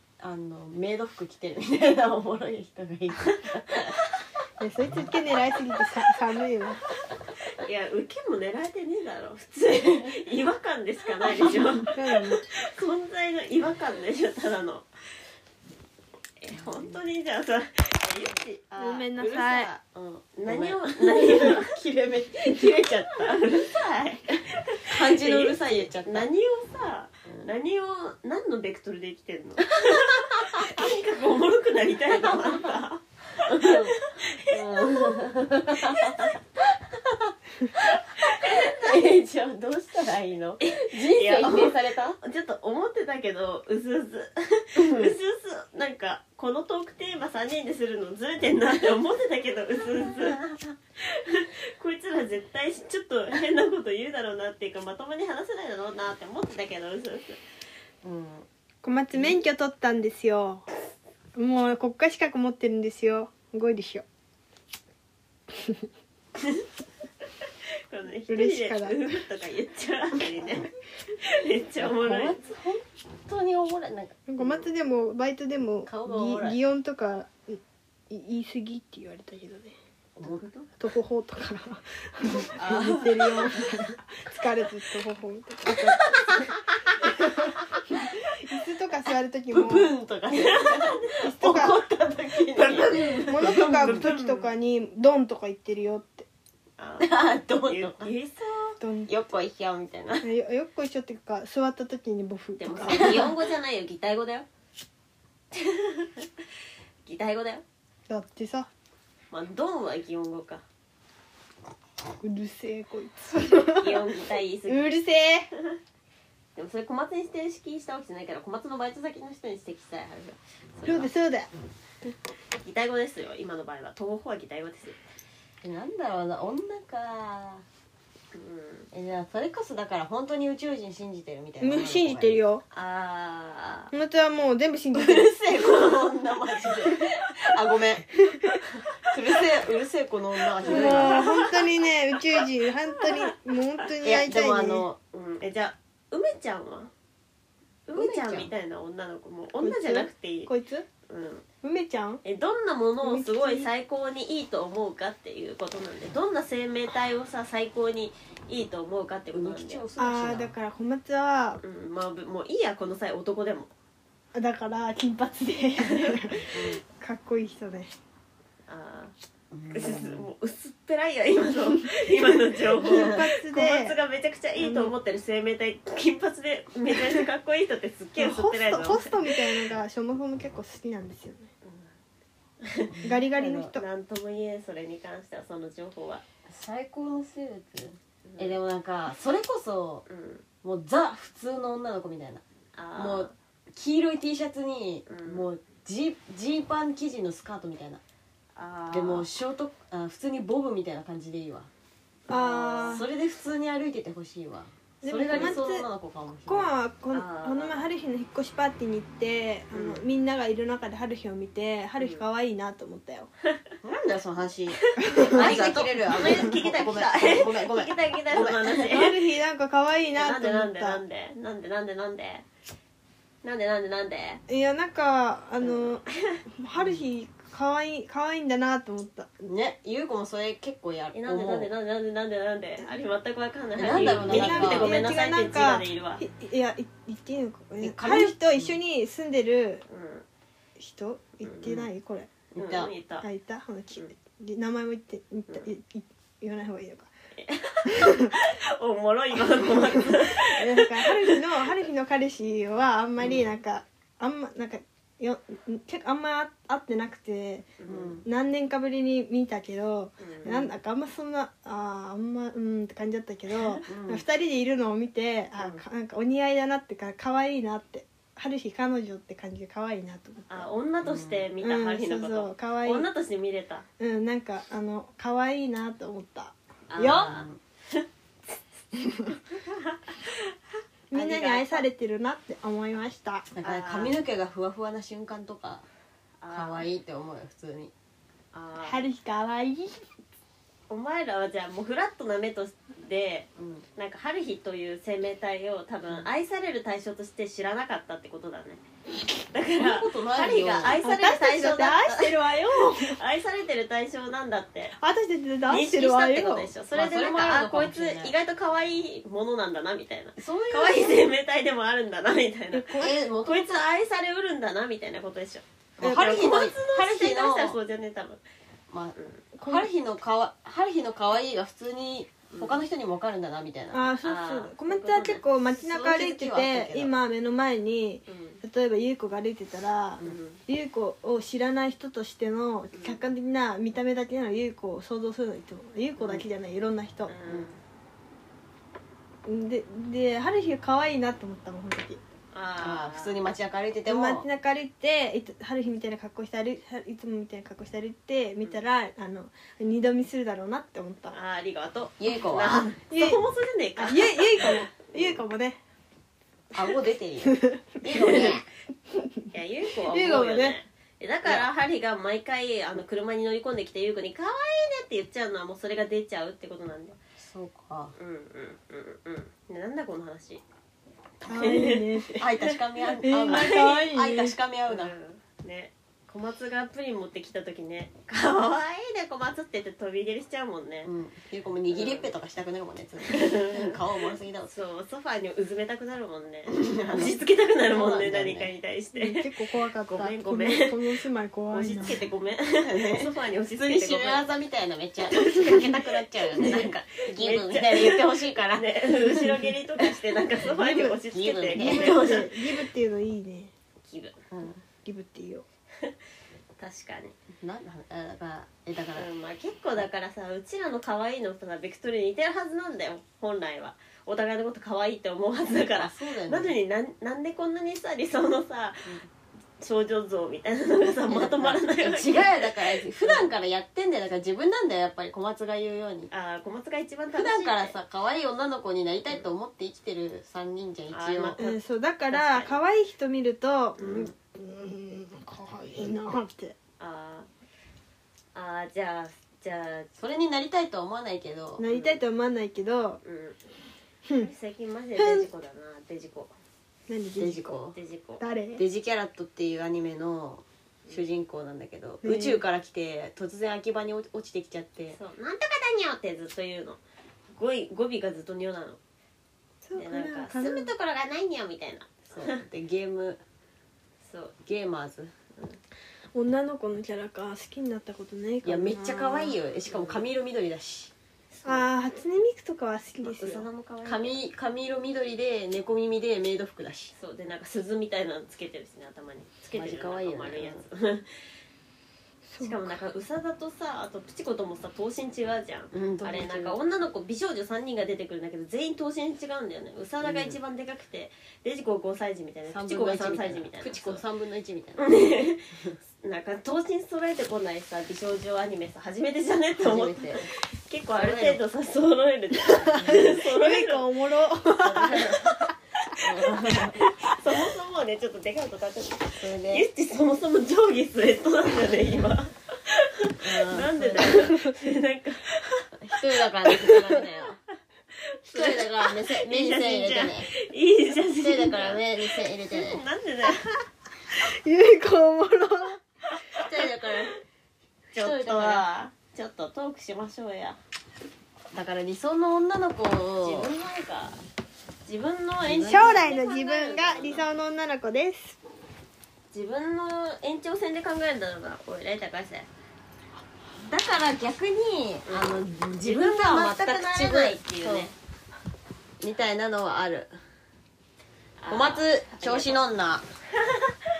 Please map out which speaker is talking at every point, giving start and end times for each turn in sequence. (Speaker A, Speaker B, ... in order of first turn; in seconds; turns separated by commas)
Speaker A: 0.2-4.0, Speaker B: 4.6-6.8, Speaker C: 7.5-14.9, Speaker B: 11.8-12.4, Speaker C: 16.4-18.8, Speaker A: 18.8-23.7, Speaker B: 18.8-19.7, Speaker C: 20.4-21.8, Speaker C: 22.5-36.3, Speaker A: 24.7-26.3, Speaker A: 29.7-30.9, Speaker A: 32.1-32.8, Speaker A: 33.4-42.2, Speaker C: 38.0-38.9, Speaker C: 40.6-50.4, Speaker A: 44.8-45.1, Speaker A: 50.1-50.5, Speaker C: 51.0-57.4, Speaker A: 58.0-58.5, Speaker B: 58.8-60.7, Speaker B: 61.4-64.0, Speaker B: 65.6-65.8, Speaker C: 66.4-66.7, Speaker C: 67.4-72.4, Speaker B: 68.3-69.0, Speaker A: 71.8-74.3, Speaker B: 74.3-79.8, Speaker A: 75.9-76.6, Speaker A: 80.2-80.7, Speaker B: 80.8-89.9, Speaker A: 82.5-83.6, Speaker A: 85.7-87.8, Speaker A: 89.5-94.1, Speaker C: 90.3-91.1, Speaker B: 91.2-91.8, Speaker C: 92.5-94.5, Speaker B: 93.3-96.3, Speaker C: 96.8-98.8, Speaker A: 97.0-98.1, Speaker B: 98.8-99.1, Speaker A: 99.1-100.3, Speaker B: 100.2-103.3, Speaker C: 102.6-104.5, Speaker A: 102.9-103.3, Speaker C: 105.5-106.3, Speaker C: 107.0-107.7, Speaker B: 108.1-108.7, Speaker C: 109.3-110.6, Speaker B: 112.2-114.1, Speaker C: 113.3-114.9, Speaker B: 114.7-115.5, Speaker C: 116.5-121.1, Speaker B: 120.8-121.5, Speaker C: 122.6-125.0, Speaker A: 125.6-127.6, Speaker C: 128.3-128.9, Speaker A: 128.9-132.4, Speaker B: 131.6-132.6, Speaker C: 132.7-133.9, Speaker B: 133.9-135.3, Speaker A: 134.9-141.4, Speaker C: 140.6-141.7, Speaker B: 140.6-144.9, Speaker C: 142.3-143.3, Speaker A: 144.0-145.0, Speaker C: 145.1-146.9, Speaker C: 147.9-150.5, Speaker A: 147.9-148.5, Speaker B: 149.6-150.9, Speaker C: 151.1-151.4, Speaker B: 151.6-152.2, Speaker C: 152.2-159.8, Speaker B: 153.0-153.7, Speaker A: 159.3-160.6, Speaker B: 160.0-161.6, Speaker C: 161.6-163.7, Speaker B: 164.3-167.9, Speaker C: 165.8-166.5, Speaker A: 166.5-166.8, Speaker C: 168.7-169.1, Speaker A: 169.5-170.3, Speaker C: 169.7-179.2, Speaker B: 172.8-174.0, Speaker A: 172.8-173.2, Speaker B: 174.6-174.9, Speaker B: 178.2-181.5, Speaker C: 181.6-181.9, Speaker C: 182.6-183.0, Speaker A: 182.9-183.7, Speaker B: 183.0-183.8, Speaker C: 183.7-186.2, Speaker A: 186.5-190.1, Speaker C: 188.3-188.6, Speaker C: 190.1-190.4, Speaker A: 190.6-192.4, Speaker C: 192.8-193.3, Speaker A: 193.0-198.0, Speaker C: 195.1-195.5, Speaker C: 198.6-199.3, Speaker A: 198.9-201.7, Speaker C: 202.3-203.1, Speaker B: 202.3-203.1, Speaker A: 202.8-206.7, Speaker B: 205.0-205.9, Speaker C: 205.3-205.6, Speaker B: 206.5-213.3, Speaker C: 207.1-207.9, Speaker C: 209.7-210.0, Speaker C: 212.0-212.2, Speaker A: 213.8-218.9, Speaker C: 214.8-219.2, Speaker B: 215.0-215.7, Speaker B: 218.7-221.0, Speaker C: 220.2-222.4, Speaker C: 223.4-224.4, Speaker B: 224.5-226.1, Speaker C: 225.6-226.4, Speaker B: 226.6-229.3, Speaker A: 229.4-231.7, Speaker C: 231.1-236.2, Speaker A: 233.8-234.9, Speaker B: 234.0-239.8, Speaker A: 237.8-238.8, Speaker C: 239.9-240.2, Speaker B: 240.8-242.3, Speaker C: 241.4-241.9, Speaker A: 242.6-242.9, Speaker C: 242.6-243.3, Speaker B: 243.2-247.1, Speaker C: 247.4-251.4, Speaker B: 247.9-248.4, Speaker B: 249.6-270.7, Speaker C: 257.8-258.2, Speaker A: 257.9-258.2, Speaker C: 260.2-260.7, Speaker A: 263.9-264.2, Speaker C: 265.6-265.8, Speaker C: 270.5-273.9, Speaker A: 271.0-271.5, Speaker B: 271.6-273.1, Speaker B: 274.0-277.3, Speaker C: 276.9-278.1, Speaker A: 277.0-277.6, Speaker B: 279.0-279.3, Speaker C: 279.3-280.5, Speaker B: 281.1-283.5, Speaker C: 281.1-281.9, Speaker A: 283.6-285.9, Speaker C: 283.6-284.2, Speaker C: 286.4-286.9, Speaker A: 286.5-287.9, Speaker C: 288.5-289.1, Speaker B: 288.8-290.0, Speaker C: 290.9-298.8, Speaker A: 293.6-293.9, Speaker C: 299.5-304.9, Speaker A: 299.8-301.0, Speaker B: 301.0-303.2, Speaker B: 305.0-306.7, Speaker C: 305.7-318.4, Speaker A: 306.9-308.3, Speaker A: 310.4-311.2, Speaker B: 312.7-313.2, Speaker A: 313.0-313.9, Speaker A: 316.0-317.8, Speaker B: 316.0-316.4, Speaker A: 318.9-324.1, Speaker C: 319.2-319.4, Speaker B: 319.6-319.9, Speaker C: 322.5-322.8, Speaker B: 323.9-337.3, Speaker C: 324.2-325.4, Speaker A: 325.7-327.1, Speaker C: 328.3-328.6, Speaker C: 330.2-330.6, Speaker C: 332.9-333.2, Speaker C: 337.3-337.8, Speaker B: 339.5-342.2, Speaker C: 342.5-343.4, Speaker A: 342.8-344.5, Speaker B: 344.1-351.4, Speaker C: 351.3-355.4, Speaker A: 352.2-352.9, Speaker B: 352.8-353.4, Speaker B: 354.0-355.8, Speaker A: 356.8-358.6, Speaker B: 357.4-358.6, Speaker C: 358.1-358.5, Speaker B: 359.1-359.4, Speaker C: 359.5-367.2, Speaker B: 360.1-360.8, Speaker A: 367.4-368.1, Speaker C: 368.2-370.6, Speaker C: 371.4-372.4, Speaker B: 371.4-374.6, Speaker A: 372.4-375.2, Speaker C: 373.4-374.0, Speaker C: 374.9-381.1, Speaker A: 381.1-384.8, Speaker C: 381.9-382.3, Speaker C: 383.2-384.0, Speaker C: 384.7-389.5, Speaker A: 386.7-388.7, Speaker B: 389.1-392.2, Speaker C: 390.1-391.0, Speaker C: 391.7-394.4, Speaker A: 392.0-400.1, Speaker C: 395.3-402.6, Speaker A: 400.7-402.2, Speaker B: 400.8-401.2, Speaker B: 401.7-403.7, Speaker C: 404.0-404.4, Speaker A: 404.5-404.8, Speaker B: 405.1-405.7, Speaker C: 406.8-407.4, Speaker A: 407.6-409.3, Speaker C: 409.1-419.1, Speaker A: 415.9-416.8, Speaker C: 419.8-423.5, Speaker A: 421.3-426.3, Speaker C: 426.3-427.9, Speaker A: 427.3-431.6, Speaker C: 431.1-431.8, Speaker B: 431.6-436.8, Speaker C: 432.3-432.8, Speaker C: 434.0-434.3, Speaker C: 437.0-437.5, Speaker C: 438.6-440.1, Speaker A: 440.2-441.9, Speaker B: 441.8-443.2, Speaker C: 441.9-442.2, Speaker C: 443.2-443.6, Speaker C: 444.4-446.5, Speaker B: 445.2-445.5, Speaker B: 447.1-447.8, Speaker A: 447.4-448.0, Speaker C: 447.9-448.4, Speaker B: 448.4-448.8, Speaker A: 448.8-455.2, Speaker B: 452.2-452.6, Speaker C: 455.1-457.0, Speaker C: 457.5-459.0, Speaker B: 459.8-460.9, Speaker C: 460.0-462.6, Speaker A: 462.3-463.4, Speaker C: 464.2-464.6, Speaker A: 464.6-465.3, Speaker B: 466.4-469.0, Speaker A: 468.6-471.1, Speaker C: 468.9-470.2, Speaker C: 471.5-471.9, Speaker B: 471.6-473.7, Speaker C: 473.2-474.4, Speaker A: 474.1-477.1, Speaker C: 477.2-481.3, Speaker A: 479.7-480.8, Speaker B: 482.4-483.0, Speaker C: 482.6-494.2, Speaker A: 485.9-486.8, Speaker A: 490.2-490.6, Speaker A: 492.7-495.2, Speaker C: 495.0-504.1, Speaker A: 499.8-500.5, Speaker A: 501.1-501.6, Speaker B: 502.9-506.2, Speaker A: 503.0-503.3, Speaker A: 504.8-505.6, Speaker A: 506.2-507.0, Speaker B: 507.0-507.2, Speaker C: 507.3-515.5, Speaker A: 509.4-509.9, Speaker A: 513.4-514.4, Speaker B: 514.2-514.7, Speaker A: 516.0-517.6, Speaker C: 516.6-517.2, Speaker C: 518.5-523.8, Speaker A: 518.5-520.5, Speaker A: 521.4-523.0, Speaker B: 524.3-526.0, Speaker C: 526.4-526.8, Speaker A: 526.5-527.3, Speaker C: 528.1-530.8, Speaker A: 528.2-528.9, Speaker A: 531.7-533.7, Speaker C: 533.4-534.4, Speaker C: 535.1-537.5, Speaker A: 535.7-536.2, Speaker B: 535.9-538.6, Speaker C: 539.5-542.7, Speaker A: 543.8-548.1, Speaker C: 546.0-548.1, Speaker A: 549.2-550.3, Speaker C: 551.6-552.8, Speaker A: 551.7-553.2, Speaker C: 553.6-553.9